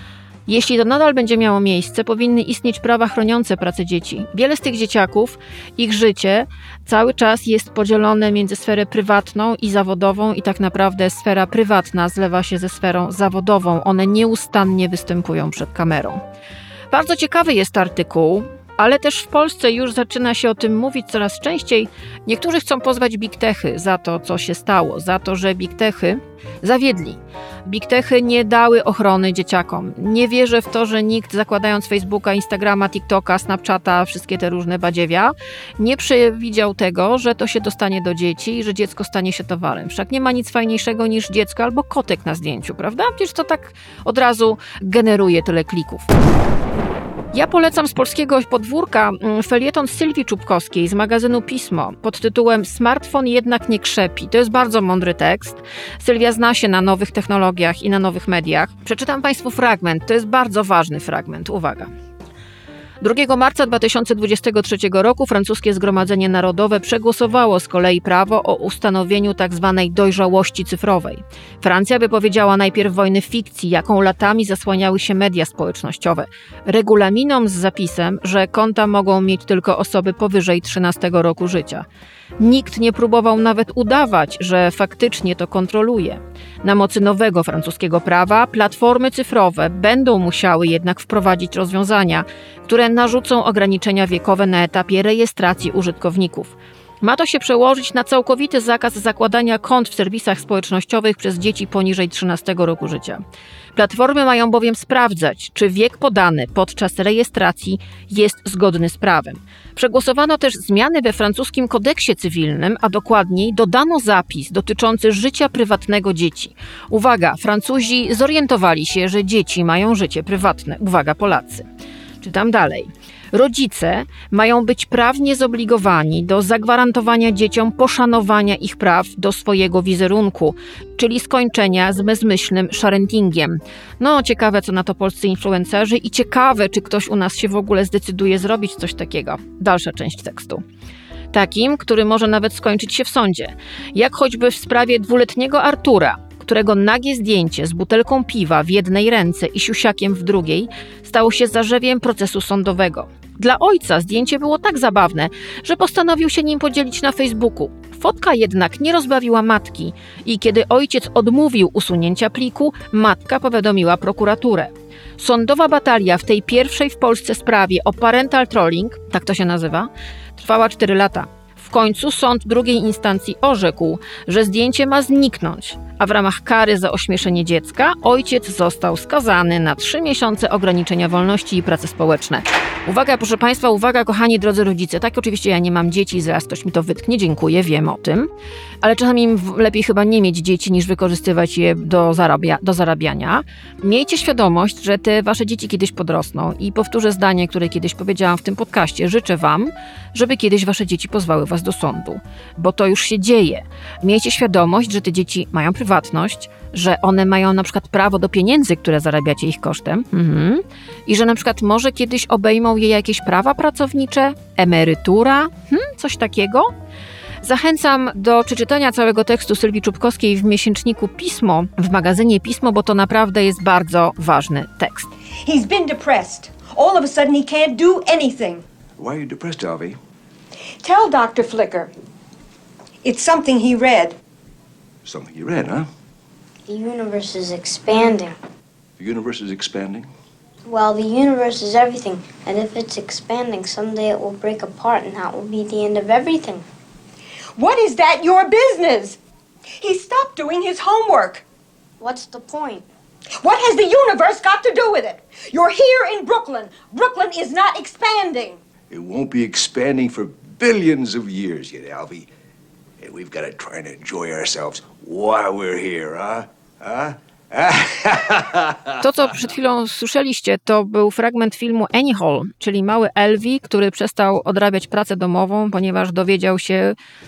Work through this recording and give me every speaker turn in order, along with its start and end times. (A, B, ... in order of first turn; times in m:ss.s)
0:00.5-0:16.2 A
0:16.9-0:46.1 A
0:47.3-1:01.9 A
1:03.0-1:21.8 A
1:22.4-1:43.2 A
1:43.7-2:01.6 A
2:02.2-2:20.6 A
2:21.3-3:08.3 A
3:08.8-3:36.7 A
3:37.4-3:45.1 A
3:45.4-3:48.6 B
3:49.0-3:50.0 C
3:50.8-3:51.9 B
3:53.0-3:54.2 B
3:55.0-3:55.9 C
3:56.7-3:58.4 D
3:59.0-4:00.1 C
4:00.6-4:06.6 D
4:07.6-4:09.2 B
4:09.8-4:11.4 B
4:12.0-4:12.8 D
4:13.4-4:18.6 B
4:18.9-4:22.3 C
4:23.0-4:28.9 C
4:29.0-4:36.9 A